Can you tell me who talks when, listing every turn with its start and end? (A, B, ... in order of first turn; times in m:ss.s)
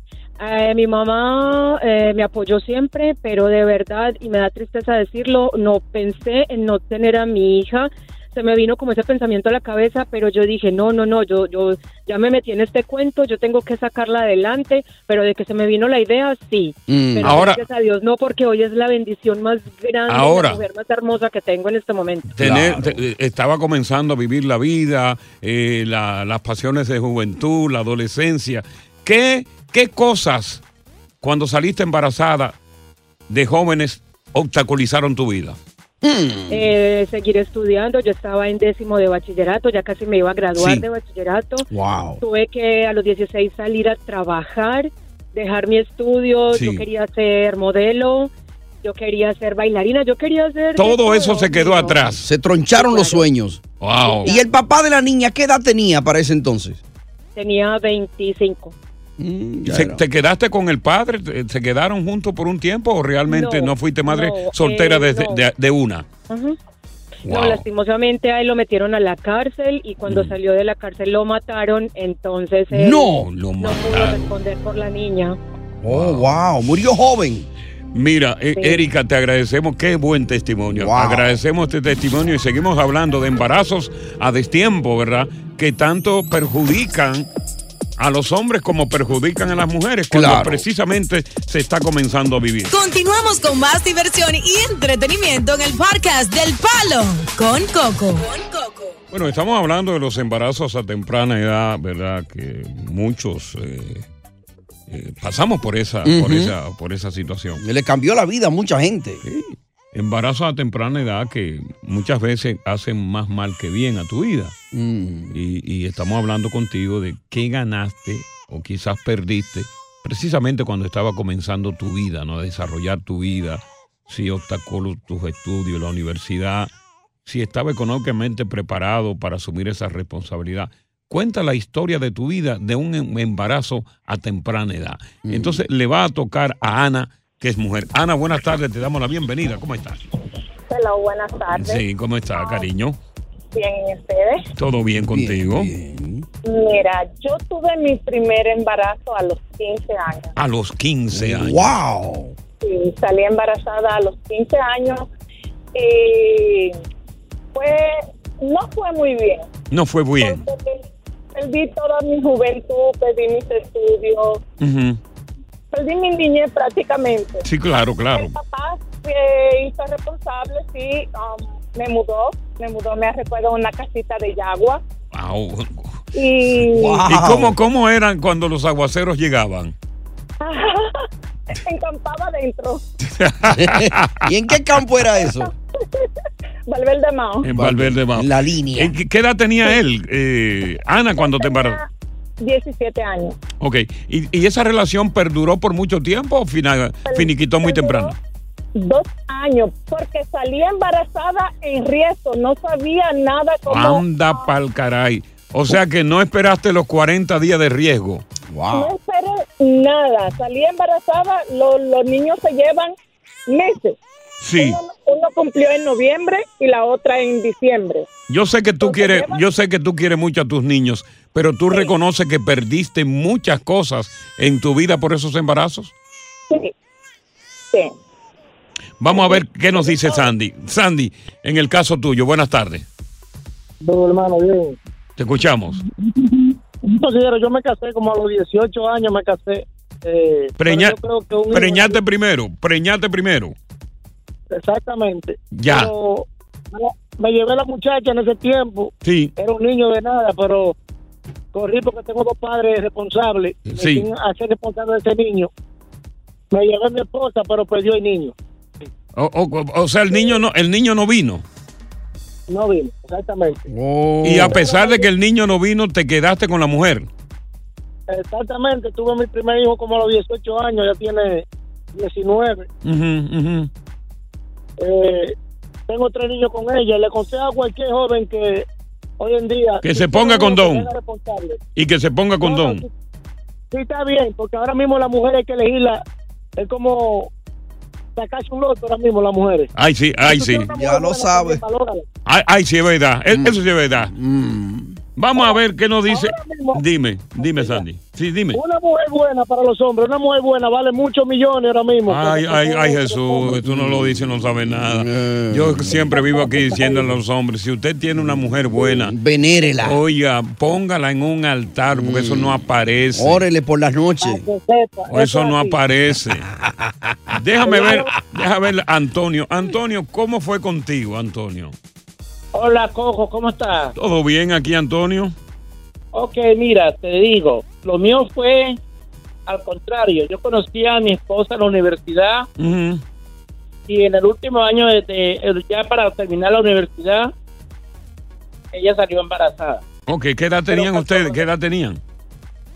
0:00.4-0:22.3 A
0:16.9-0:17.4 B
0:17.2-0:17.6 C
0:20.1-0:20.6 C
0:22.3-0:30.6 C
0:22.4-0:23.0 B
0:31.2-0:32.6 C
0:33.3-0:35.6 C
0:36.0-0:36.7 B
0:36.5-0:41.7 A
0:40.6-0:40.8 C
0:41.7-0:42.2 B
0:42.2-0:48.3 A
0:46.5-0:46.8 C
0:48.8-0:52.0 A
0:50.8-0:52.3 C
0:52.2-0:53.6 B
0:52.8-0:53.2 A
0:53.8-0:54.3 C
0:54.1-0:54.4 A
0:54.2-0:56.8 B
0:57.4-0:58.7 A
0:59.2-1:00.0 B
0:59.6-1:06.0 C
1:03.3-1:05.4 A
1:06.3-1:06.6 A
1:07.2-1:07.6 C
1:07.2-1:15.4 A
1:10.0-1:10.3 C
1:12.7-1:13.3 B
1:13.2-1:14.3 C
1:15.8-1:17.5 B
1:15.9-1:16.3 C
1:17.9-1:27.3 C
1:20.7-1:21.3 B
1:28.0-1:32.7 C
1:30.1-1:30.6 B
1:32.7-1:38.9 D
1:39.1-1:44.0 C
1:44.9-1:47.6 C
1:46.0-1:46.5 B
1:47.6-1:49.2 B
1:49.2-1:54.5 C
1:54.7-1:55.4 B
1:55.3-2:06.7 C
2:07.2-2:20.0 C
2:15.2-2:15.6 B
2:20.7-2:21.8 E
2:21.5-2:23.0 C
2:22.3-2:22.7 E
2:23.5-2:24.4 E
2:24.6-2:25.7 C
2:25.0-2:26.2 B
2:26.4-2:30.3 E
2:30.4-2:31.7 C
2:31.1-2:32.3 B
2:32.6-2:35.1 E
2:35.7-2:36.7 E
2:37.5-2:39.5 E
2:39.7-2:40.4 C
2:40.2-2:44.4 E
2:44.6-2:45.0 C
2:45.7-2:47.4 E
2:47.4-2:48.4 C
2:48.1-2:54.8 E
2:55.1-2:56.0 C
2:56.1-2:57.0 E
2:56.6-2:57.5 B
2:57.0-2:59.7 C
3:00.4-3:02.8 E
3:03.2-3:04.2 C
3:03.5-3:05.5 B
3:05.3-3:06.0 E
3:06.7-3:07.5 E
3:07.4-3:11.8 C
3:07.4-3:08.9 B
3:11.2-3:11.8 E
3:12.4-3:13.4 E
3:13.6-3:18.1 C
3:17.1-3:18.1 E
3:18.7-3:24.5 E
3:23.7-3:28.2 C
3:28.5-3:28.9 B
3:28.7-3:32.9 E
3:33.5-3:34.0 E
3:34.4-3:34.8 C
3:34.6-3:38.1 E
3:38.3-3:45.9 C
3:38.8-3:39.4 E
3:49.0-3:52.8 C
3:49.1-3:50.3 E
3:53.8-3:54.8 F
3:55.2-3:55.8 C
3:56.0-4:02.0 F
4:00.6-4:01.0 C
4:01.5-4:03.5 C
4:04.5-4:10.7 F
4:05.5-4:05.9 C
4:09.0-4:09.3 C
4:11.5-4:15.5 F
4:13.6-4:14.1 C
4:16.5-4:18.3 F
4:19.2-4:21.4 C
4:22.5-4:23.6 F
4:23.7-4:24.6 B
4:24.2-4:27.1 C
4:24.5-4:25.0 F
4:28.1-4:32.7 F
4:32.8-4:33.7 C
4:34.8-4:35.3 F
4:35.9-4:38.6 F
4:39.2-4:41.6 F
4:39.8-4:40.9 C
4:41.8-4:42.8 C
4:42.4-4:42.9 F
4:43.7-4:46.0 F
4:46.6-4:47.3 F
4:48.2-4:49.7 F
4:49.7-4:50.7 C
4:50.2-4:52.0 F
4:50.7-4:51.6 B
4:52.2-4:54.1 C
4:53.3-4:55.0 B
4:55.2-4:58.6 C
4:56.1-4:56.8 F
4:57.4-4:57.8 F
4:58.5-5:03.5 F
5:02.1-5:09.1 C
5:03.5-5:06.3 B
5:06.4-5:06.9 F
5:08.2-5:10.0 B
5:09.8-5:13.4 C
5:11.9-5:12.6 B
5:13.1-5:14.4 B
5:14.2-5:15.8 F
5:15.1-5:16.5 C
5:16.6-5:17.4 B
5:17.3-5:21.7 C
5:22.5-5:23.9 G
5:23.9-5:25.3 C
5:26.1-5:28.8 G
5:29.5-5:32.4 G
5:32.6-5:33.0 C
5:33.9-5:37.3 G
5:38.7-5:39.8 G
5:40.1-5:42.0 C